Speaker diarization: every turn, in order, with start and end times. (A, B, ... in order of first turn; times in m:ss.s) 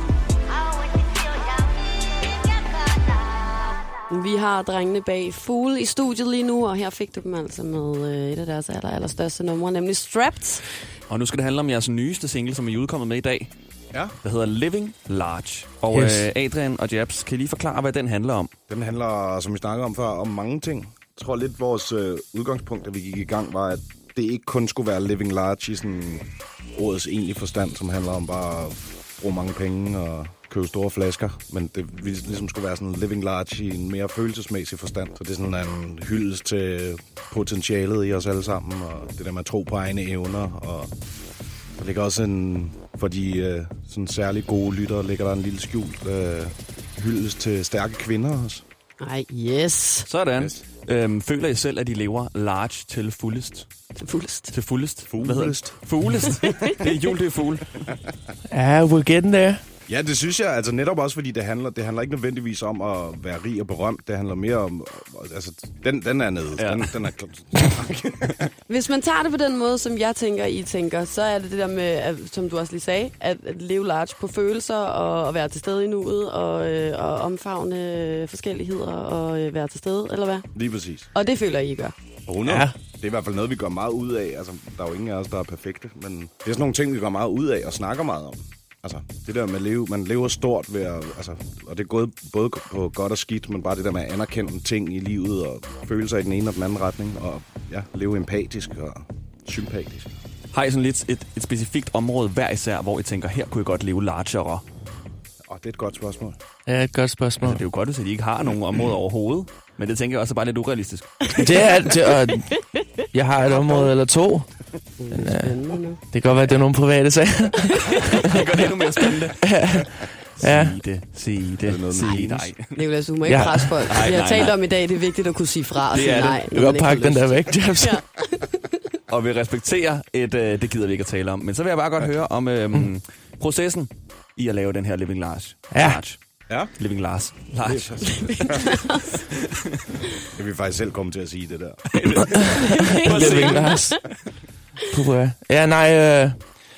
0:04.1-0:10.6 A
0:11.1-0:13.5 B
0:14.2-0:18.5 B
0:15.9-0:16.3 C
0:18.7-0:40.9 D
0:41.8-0:48.6 D
0:49.0-0:50.1 A
0:50.1-0:53.7 B
0:50.4-0:50.6 D
0:54.0-0:54.5 A
0:54.5-0:57.9 B
0:55.1-0:55.8 D
0:56.4-0:56.8 A
0:56.6-0:56.9 D
0:58.5-0:59.6 C
0:59.9-1:08.5 D
1:06.6-1:07.0 B
1:08.7-1:20.5 A
1:20.5-1:21.1 D
1:21.1-1:21.9 A
1:22.2-1:40.2 D
1:22.4-1:22.7 C
1:40.5-1:44.6 B
1:45.4-1:46.4 D
1:46.6-1:47.6 C
1:47.4-1:51.3 B
1:51.2-1:51.5 A
1:51.3-1:52.6 C
1:52.3-1:53.9 A
1:53.1-1:54.5 C
1:55.0-1:56.0 A
1:55.1-1:58.4 C
1:57.7-1:58.2 A
1:58.1-1:59.7 B
1:59.4-2:00.8 C
2:00.4-2:02.8 B
2:01.6-2:02.5 D
2:02.7-2:09.0 A
2:03.3-2:04.1 C
2:03.7-2:04.6 B
2:05.9-2:06.4 B
2:06.5-2:08.0 C
2:09.1-2:16.2 B
2:15.7-2:16.0 C
2:16.8-2:18.5 B
2:17.6-2:18.9 D
2:18.0-2:19.2 A
2:19.1-2:19.9 B
2:20.2-2:22.6 D
2:22.0-2:24.1 B
2:22.4-2:24.0 C
2:22.4-2:24.0 A
2:24.9-2:26.4 C